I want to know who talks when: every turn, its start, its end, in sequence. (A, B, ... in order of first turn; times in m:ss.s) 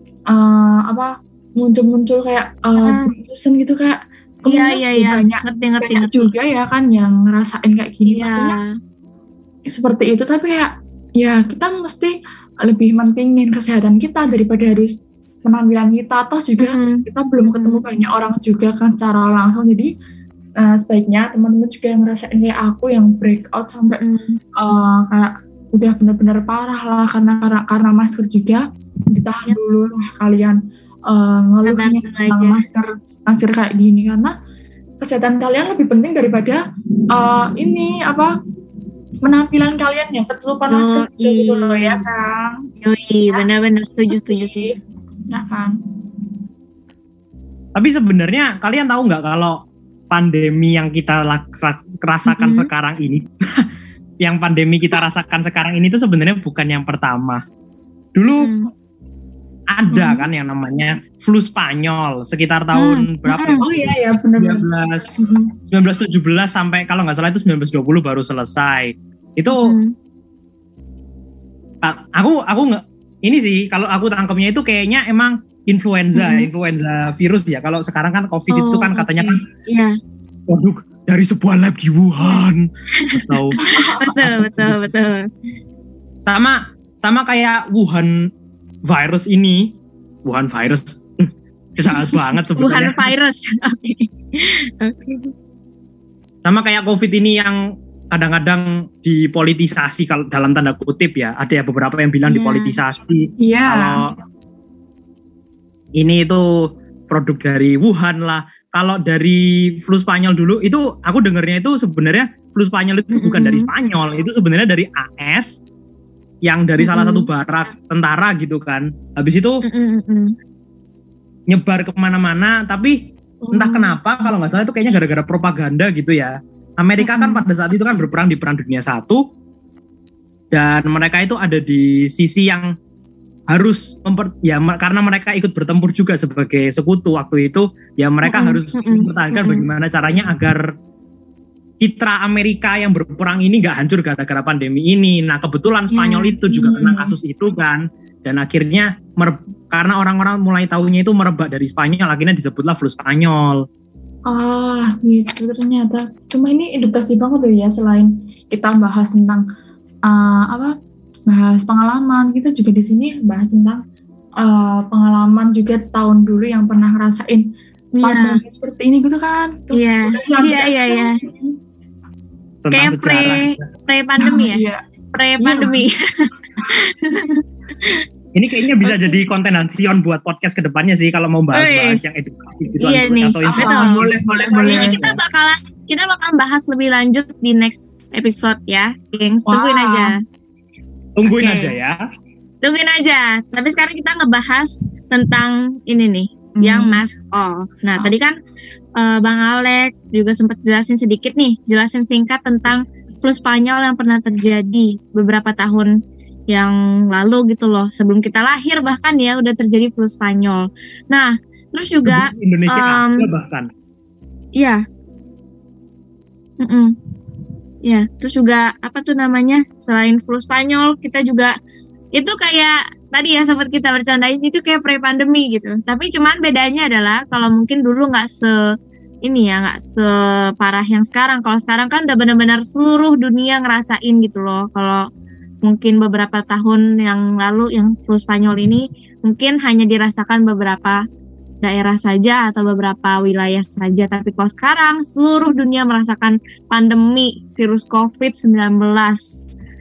0:00.3-0:08.6 A
0:02.8-0:03.1 B
0:04.4-0:06.3 B
0:08.1-0:08.7 B
0:09.7-0:12.1 A
0:12.6-0:14.9 A
0:15.4-0:19.9 A
0:16.6-0:17.8 B
0:20.6-0:24.0 A
0:23.9-0:24.4 B
0:24.6-0:34.3 A
0:29.4-0:29.9 B
0:31.6-0:32.6 B
0:35.0-0:36.6 A
0:37.1-0:38.3 A
0:39.2-0:42.6 A
0:40.7-0:42.0 B
0:42.8-0:44.7 B
0:44.1-0:44.8 A
0:45.3-0:45.8 A
0:47.7-0:53.6 C
0:52.3-0:52.7 B
0:54.2-0:57.4 C
0:58.1-0:58.5 C
0:58.4-0:58.7 B
0:59.7-1:03.6 C
0:59.9-1:00.2 B
1:02.7-1:03.6 B
1:03.6-1:05.5 A
1:04.4-1:05.1 C
1:05.7-1:09.7 C
1:09.5-1:09.9 B
1:11.8-1:19.4 C
1:16.1-1:16.5 B
1:18.5-1:20.0 B
1:20.5-1:23.5 C
1:23.0-1:25.2 B
1:23.6-1:24.1 A
1:24.2-1:24.8 C
1:26.2-1:28.1 C
1:28.9-1:29.6 C
1:30.2-1:33.1 C
1:31.9-1:35.3 B
1:36.4-1:37.6 C
1:38.1-1:44.1 C
1:42.3-1:42.8 B
1:43.4-1:44.0 A
1:46.0-1:55.6 C
1:53.1-1:53.7 B
1:56.4-1:59.6 C
1:56.8-1:57.3 B
1:59.6-2:00.3 B
2:01.5-2:09.2 C
2:03.4-2:04.0 B
2:07.0-2:07.4 B
2:10.5-2:12.7 C
2:13.5-2:20.7 C
2:18.2-2:19.6 B
2:21.8-2:33.6 C
2:25.9-2:26.4 B
2:26.7-2:27.1 A
2:34.3-2:39.4 A
2:40.1-2:40.7 A
2:41.3-2:43.8 A
2:44.4-2:47.4 A
2:48.0-2:48.4 B
2:48.0-2:51.6 A
2:49.7-2:51.2 B
2:52.6-2:53.7 C
2:52.7-2:58.0 B
2:54.2-2:54.8 A
2:55.4-2:55.8 A
2:58.3-3:04.1 C
2:58.8-2:59.2 B
3:01.5-3:02.0 B
3:02.8-3:10.2 B
3:03.5-3:05.0 A
3:04.6-3:05.2 C
3:09.5-3:10.1 A
3:11.2-3:12.0 C
3:11.2-3:11.7 B
3:12.6-3:18.3 B
3:16.6-3:17.0 A
3:19.0-3:25.9 B
3:26.5-3:33.3 B
3:32.0-3:33.7 C
3:34.6-3:34.8 B
3:36.6-3:36.9 B
3:37.8-3:41.5 B
3:42.1-3:48.7 B
3:49.2-3:55.0 B
3:55.6-4:01.0 B
4:01.6-4:09.5 B